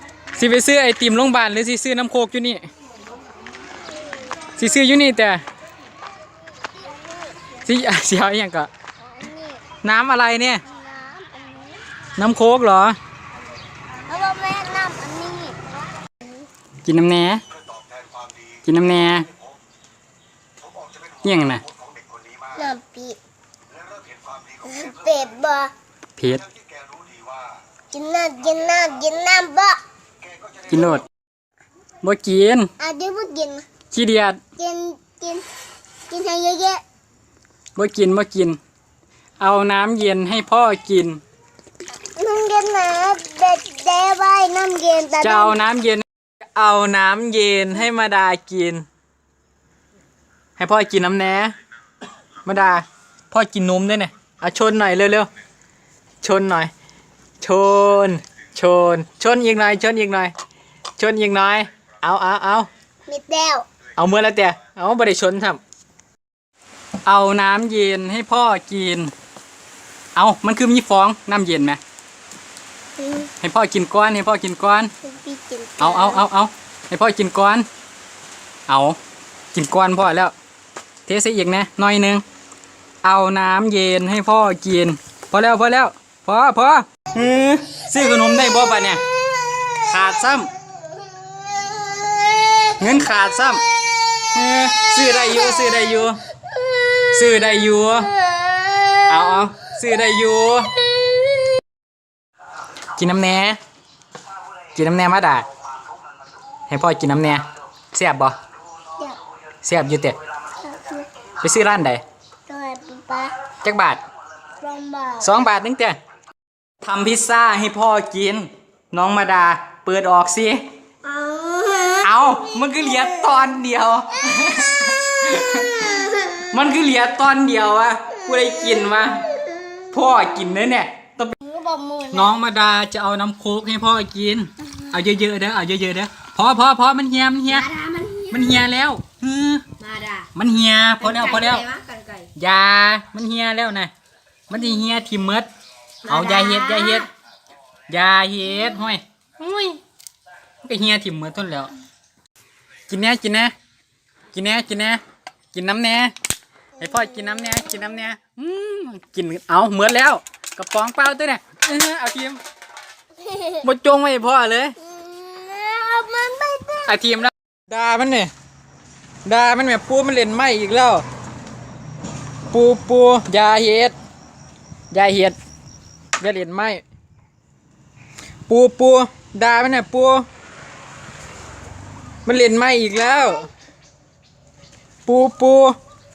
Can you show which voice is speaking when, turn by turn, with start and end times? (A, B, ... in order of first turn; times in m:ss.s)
0:00.3-0:02.6 A
0:04.6-0:05.4 A
0:07.6-0:08.7 A
0:09.0-0:09.6 B
0:09.8-0:10.6 A
0:10.7-0:11.8 B
0:12.2-0:13.0 A
0:14.1-0:16.2 B
0:16.8-0:17.4 A
0:18.6-0:19.3 A
0:21.2-0:21.6 A
0:22.5-0:23.2 B
0:24.5-0:25.7 B
0:26.2-0:26.4 A
0:27.9-0:29.8 B
0:30.7-0:31.1 A
0:32.0-0:32.7 A
0:32.8-0:33.6 B
0:33.9-0:34.4 A
0:34.6-0:35.4 B
0:36.1-0:36.8 B
0:37.8-0:38.6 A
0:39.4-0:41.2 A
0:42.2-0:45.6 B
0:45.2-0:46.0 A
0:46.6-0:48.8 A
0:50.6-0:51.5 A
0:52.4-0:55.3 A
0:56.2-0:56.7 A
0:57.4-1:00.3 A
1:01.0-1:02.7 A
1:03.1-1:03.7 B
1:04.0-1:05.6 A
1:07.0-1:09.1 A
1:10.2-1:11.8 A
1:13.0-1:13.3 B
1:13.4-1:14.9 A
1:15.0-1:16.2 B
1:15.8-1:17.7 A
1:18.7-1:19.0 A
1:19.5-1:20.3 A
1:21.1-1:22.2 A
1:23.0-1:29.0 A
1:29.8-1:30.5 A
1:31.0-1:32.8 B
1:32.8-1:33.6 A
1:34.3-1:36.2 A
1:37.1-1:38.2 A
1:38.2-1:39.5 B
1:39.1-1:40.7 A
1:43.0-1:43.6 A
1:44.8-1:45.5 A
1:46.7-1:48.4 A
1:49.6-1:50.2 A
1:50.6-1:51.1 B
1:51.4-1:52.0 A
1:52.5-1:53.4 B
1:53.6-1:54.0 A
1:54.6-1:55.4 B
1:55.2-1:56.0 A
1:56.8-2:00.7 A
2:01.0-2:02.1 B
2:02.0-2:09.3 A
2:05.6-2:06.4 B
2:08.8-2:09.8 B
2:09.9-2:11.4 A
2:11.4-2:12.4 B
2:12.1-2:17.7 A
2:17.5-2:18.6 B
2:18.3-2:19.7 A
2:19.8-2:20.3 B
2:20.4-2:21.6 A
2:21.0-2:22.3 B
2:22.4-2:23.9 A
2:24.5-2:25.5 A
2:26.0-2:27.1 A
2:26.1-2:27.0 B
2:27.9-2:29.8 A
2:30.6-2:31.7 A
2:32.9-2:33.5 A
2:34.3-2:35.0 A
2:35.5-2:36.1 A
2:36.8-2:42.4 A
2:43.2-2:43.6 B
2:43.6-2:44.8 A
2:44.8-2:47.0 B
2:46.9-2:48.3 A
2:49.2-2:51.0 A
2:52.5-2:53.9 A
2:54.9-2:55.4 A
2:56.2-2:56.8 A
2:58.5-3:00.3 A
3:02.3-3:03.5 A
3:05.1-3:05.8 A